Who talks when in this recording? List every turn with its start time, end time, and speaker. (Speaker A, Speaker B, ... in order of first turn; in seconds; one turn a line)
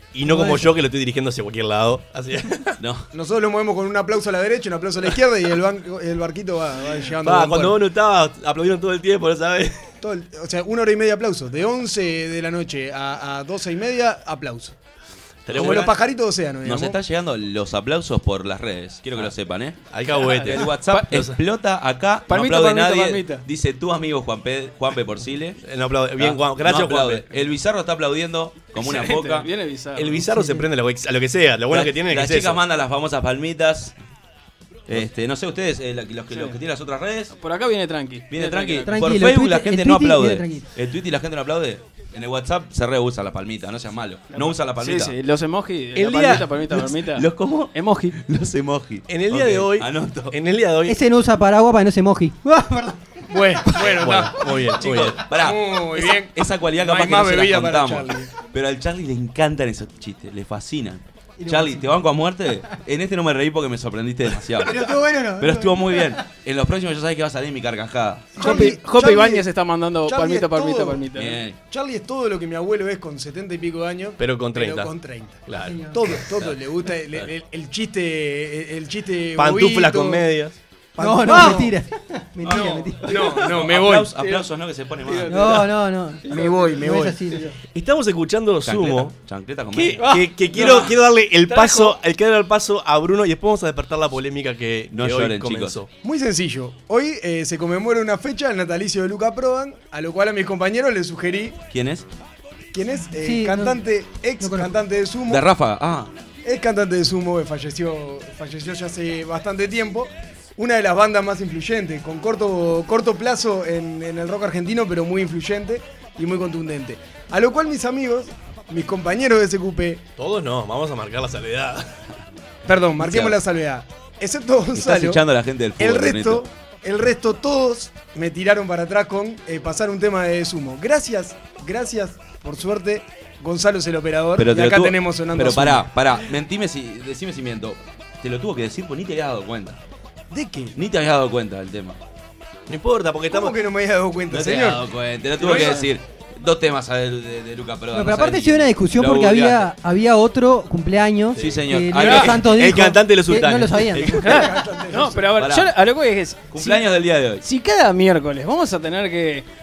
Speaker A: 0.1-2.8
Speaker B: 0.2-0.7
Speaker C: 2.8-3.1
Speaker D: 3.1-7.8
Speaker A: 7.2-9.9
Speaker D: 10.0-14.8
Speaker A: 15.5-16.0
Speaker D: 15.5-17.0
Speaker C: 16.6-25.6
Speaker A: 19.9-21.4
Speaker E: 20.2-21.1
Speaker E: 22.3-23.4
Speaker A: 25.6-27.3
Speaker C: 26.2-29.5
Speaker E: 28.8-30.3
Speaker A: 30.0-32.6
Speaker B: 30.3-30.6
Speaker C: 31.7-34.0
Speaker C: 34.9-37.3
Speaker E: 36.3-36.6
Speaker E: 37.4-38.9
Speaker C: 38.3-45.1
Speaker B: 38.9-40.7
Speaker E: 44.3-48.2
Speaker A: 46.0-46.5
Speaker C: 46.4-50.4
Speaker A: 49.1-51.0
Speaker B: 50.9-53.2
Speaker D: 53.3-58.3
Speaker A: 53.7-55.3
Speaker C: 54.8-68.4
Speaker B: 61.4-62.0
Speaker B: 64.6-66.2
Speaker D: 68.4-69.5
Speaker E: 68.4-71.4
Speaker D: 70.0-71.1
Speaker C: 71.2-71.6
Speaker D: 71.6-80.3
Speaker A: 74.2-74.9
Speaker A: 75.5-75.8
Speaker B: 75.5-76.0
Speaker C: 76.2-76.6
Speaker A: 79.3-80.6
Speaker D: 81.0-81.7
Speaker B: 81.0-83.3
Speaker C: 82.4-85.7
Speaker D: 83.1-84.2
Speaker E: 84.2-84.5
Speaker E: 85.0-85.6
Speaker B: 85.3-87.6
Speaker E: 86.2-86.8
Speaker D: 86.3-87.4
Speaker A: 87.7-89.2
Speaker C: 88.7-90.9
Speaker A: 89.7-95.9
Speaker E: 90.0-92.0
Speaker C: 94.9-95.8
Speaker D: 96.0-101.6
Speaker C: 101.7-102.1
Speaker D: 102.7-105.5
Speaker B: 103.1-103.9
Speaker B: 104.4-104.7
Speaker C: 105.3-106.1
Speaker D: 106.4-120.0
Speaker A: 120.2-121.9
Speaker D: 122.7-125.2
Speaker C: 123.0-123.4
Speaker C: 124.7-126.5
Speaker D: 125.8-135.9
Speaker C: 134.4-139.8
Speaker D: 140.3-140.8
Speaker C: 140.8-142.0
Speaker A: 142.7-143.6
Speaker D: 143.3-144.9
Speaker C: 144.3-149.7
Speaker D: 145.4-145.9
Speaker E: 145.4-145.8
Speaker B: 147.9-154.3
Speaker A: 151.3-154.4
Speaker C: 151.4-152.6
Speaker E: 152.0-152.3
Speaker E: 154.1-156.8
Speaker D: 154.2-155.4
Speaker C: 155.4-155.7
Speaker C: 156.5-157.4
Speaker E: 157.4-159.5